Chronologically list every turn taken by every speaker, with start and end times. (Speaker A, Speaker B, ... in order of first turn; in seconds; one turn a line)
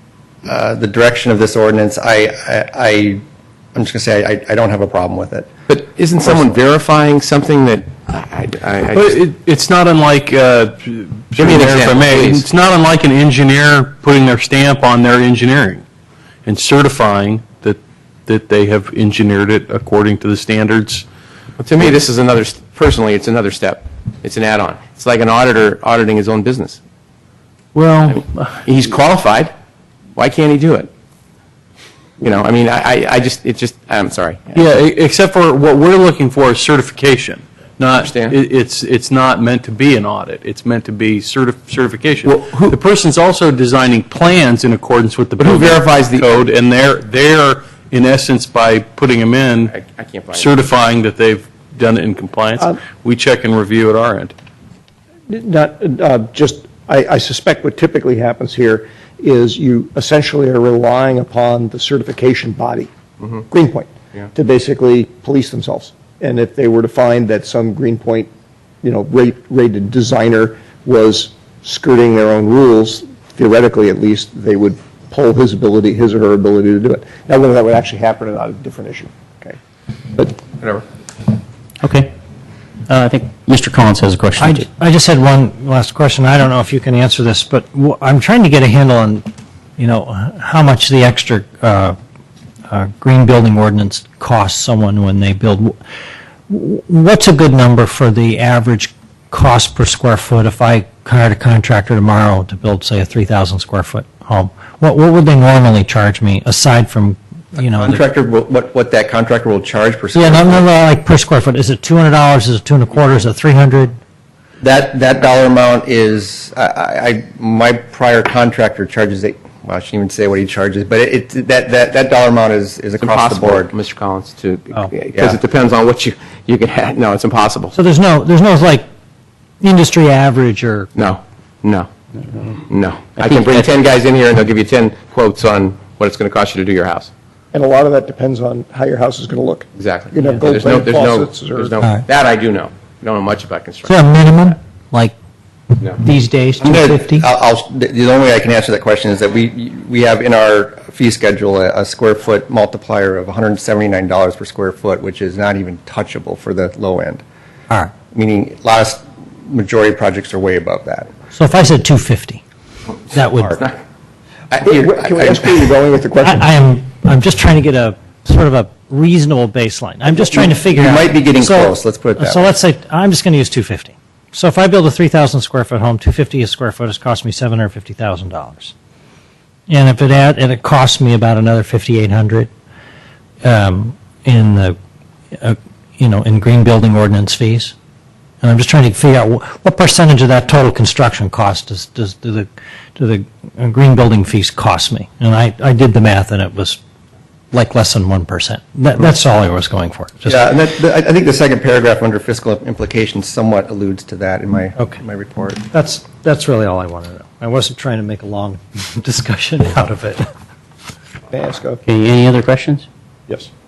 Speaker A: 0.5-3.2
Speaker A: 3.7-5.5
Speaker B: 5.7-9.2
Speaker C: 8.9-15.8
Speaker B: 11.4-12.4
Speaker C: 16.4-21.0
Speaker B: 21.6-26.8
Speaker C: 27.8-28.5
Speaker B: 28.1-29.5
Speaker B: 30.1-30.9
Speaker B: 32.2-34.7
Speaker C: 34.5-49.7
Speaker B: 38.0-38.4
Speaker B: 42.3-42.7
Speaker B: 45.4-46.5
Speaker B: 49.7-50.5
Speaker C: 50.3-54.3
Speaker D: 55.3-62.9
Speaker D: 63.5-68.3
Speaker D: 68.8-79.6
Speaker D: 80.1-80.4
Speaker E: 81.8-82.1
Speaker E: 82.9-84.6
Speaker F: 84.4-89.2
Speaker F: 89.8-92.0
Speaker F: 92.7-95.8
Speaker F: 96.5-108.0
Speaker A: 107.8-110.7
Speaker F: 110.1-114.0
Speaker A: 114.6-123.7
Speaker B: 123.0-127.7
Speaker F: 127.7-128.8
Speaker F: 129.6-130.9
Speaker B: 130.9-131.9
Speaker B: 132.7-137.1
Speaker D: 137.5-141.8
Speaker B: 139.8-144.5
Speaker F: 143.8-145.1
Speaker F: 145.8-147.3
Speaker A: 146.6-157.2
Speaker A: 158.1-161.1
Speaker F: 161.3-162.4
Speaker F: 163.1-163.6
Speaker A: 164.5-165.7
Speaker D: 164.6-166.5
Speaker F: 166.2-178.7
Speaker A: 170.1-172.5
Speaker F: 179.7-182.5
Speaker F: 183.4-184.8
Speaker F: 185.3-187.7
Speaker F: 188.4-196.8
Speaker F: 197.5-200.4
Speaker A: 200.2-205.6
Speaker F: 205.7-210.3
Speaker D: 211.3-211.8
Speaker E: 211.8-212.8